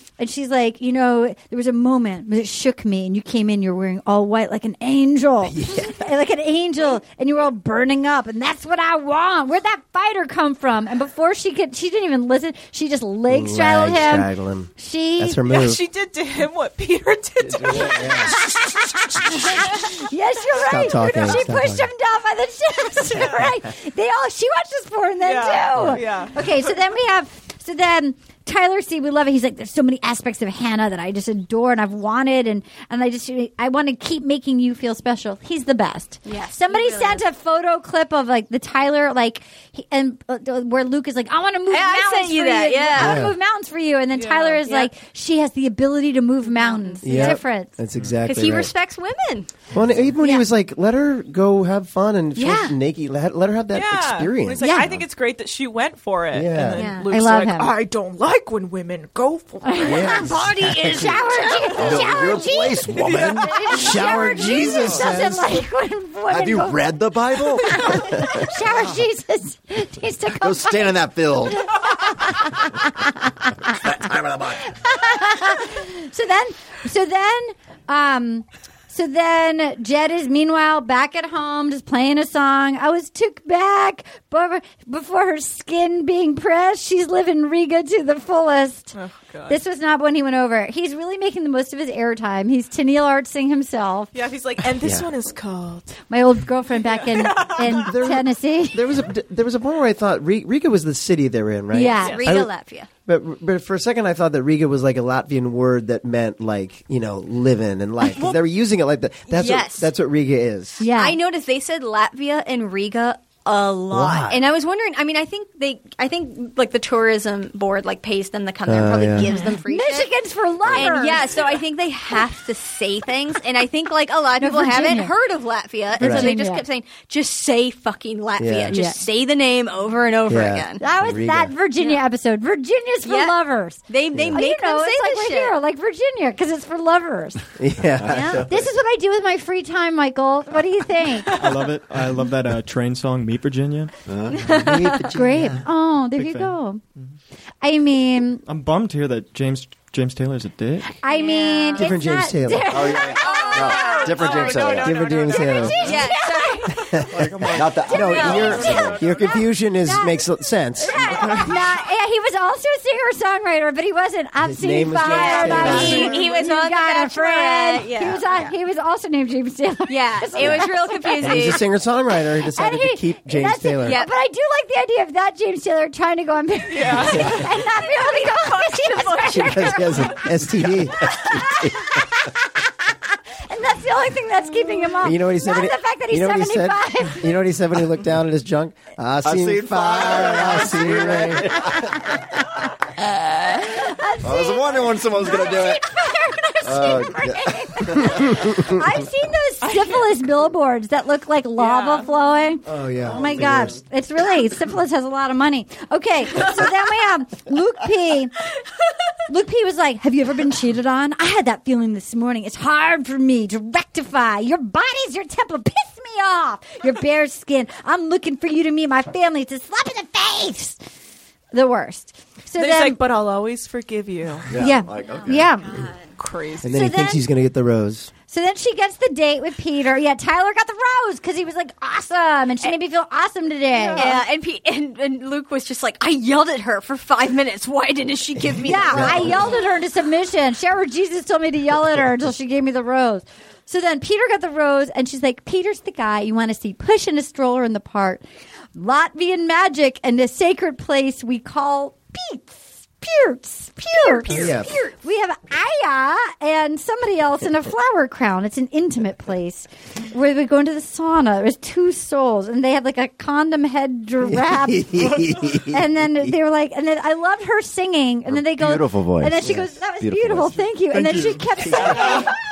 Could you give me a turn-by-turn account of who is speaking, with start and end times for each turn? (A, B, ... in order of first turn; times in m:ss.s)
0:00.2-0:15.4 A
0:05.5-0:06.0 B
0:13.3-0:15.8 B
0:15.5-0:18.4 C
0:17.4-0:18.5 B
0:18.3-0:47.8 A
0:20.6-0:21.9 B
0:25.2-0:26.7 C
0:36.3-0:37.3 D
0:41.7-0:43.3 D
0:43.0-0:43.4 B
0:44.2-0:44.6 C
0:44.6-0:44.9 D
0:46.5-0:47.4 D
0:47.0-0:48.7 B
0:48.2-0:49.5 D
0:49.7-0:54.9 B
0:52.4-0:52.8 D
0:53.7-1:00.4 C
0:54.6-0:54.9 A
0:56.3-0:56.9 B
0:56.8-0:57.1 D
0:57.1-0:57.7 A
0:59.6-1:10.9 A
0:59.8-1:01.3 B
1:01.8-1:03.6 E
1:02.9-1:03.5 C
1:03.7-1:05.6 B
1:06.3-1:08.8 E
1:10.4-1:12.9 E
1:11.8-1:13.1 A
1:13.6-1:14.8 E
1:14.6-1:29.0 A
1:29.0-1:29.6 C
1:29.5-1:34.1 A
1:34.1-1:36.0 C
1:34.8-1:35.1 B
1:36.1-1:38.8 A
1:36.8-1:37.9 C
1:37.6-1:42.5 B
1:41.7-1:42.2 A
1:42.0-1:42.9 D
1:42.0-1:42.4 C
1:43.1-1:50.9 B
1:48.0-1:48.4 D
1:49.3-1:49.9 D
1:50.8-1:51.2 A
1:50.8-2:00.1 D
1:53.9-1:54.4 B
1:58.7-1:59.3 B
1:59.4-2:01.4 A
2:00.7-2:10.8 D
2:04.4-2:05.1 A
2:06.0-2:06.7 A
2:06.0-2:06.3 B
2:08.4-2:08.8 B
2:08.7-2:09.1 A
2:10.3-2:11.5 B
2:10.8-2:17.4 A
2:13.0-2:15.6 D
2:17.6-2:18.5 B
2:17.9-2:18.7 E
2:18.1-2:18.4 D
2:18.5-2:21.4 A
2:21.4-2:23.9 F
2:24.1-2:24.5 E
2:24.4-2:25.7 B
2:24.7-2:26.8 A
2:26.2-2:26.6 F
2:27.6-2:28.4 A
2:28.5-2:31.0 F
2:31.0-2:34.6 A
2:31.1-2:32.0 D
2:31.8-2:32.9 B
2:32.7-2:35.0 E
2:33.1-2:34.5 D
2:33.2-2:35.8 C
2:34.6-2:35.8 B
2:34.9-2:36.1 F
2:35.6-2:36.9 A
2:35.8-2:37.1 D
2:36.8-2:41.0 B
2:37.0-2:39.4 F
2:37.5-2:39.1 E
2:38.1-2:38.7 D
2:39.9-2:40.2 A
2:40.8-2:51.3 A
2:41.0-2:41.6 F
2:44.4-2:46.2 B
2:45.0-2:48.5 D
2:45.7-2:46.2 F
2:49.9-2:51.7 D
2:51.2-2:54.0 B
2:52.5-3:00.4 A
2:53.8-2:54.1 D
2:56.7-2:57.4 C
2:57.1-3:00.3 D
2:59.3-3:01.5 B
3:01.0-3:07.3 A
3:05.0-3:11.9 B
3:09.2-3:12.5 E
3:13.5-3:28.3 A
3:14.2-3:15.9 E
3:16.6-3:18.4 E
3:18.1-3:18.5 B
3:19.6-3:20.1 C
3:21.6-3:22.1 C
3:22.7-3:23.8 B
3:29.3-3:40.8 A
3:41.5-3:43.0 A
3:42.6-3:44.6 C
3:44.5-3:45.9 E
3:44.6-3:45.8 A
3:45.0-3:46.1 D
3:46.2-3:46.8 C
3:46.6-3:48.1 B
3:46.7-3:47.2 A
3:48.3-3:54.2 A
3:53.7-3:54.2 C
3:54.0-3:59.4 D
3:58.6-4:08.2 A
3:58.9-3:59.4 B
4:08.8-4:32.3 A
4:13.9-4:14.9 D
4:14.3-4:14.7 B
4:24.2-4:25.9 B
4:25.0-4:25.5 F
4:28.3-4:30.6 E
4:30.9-4:32.2 F
4:31.7-4:32.2 E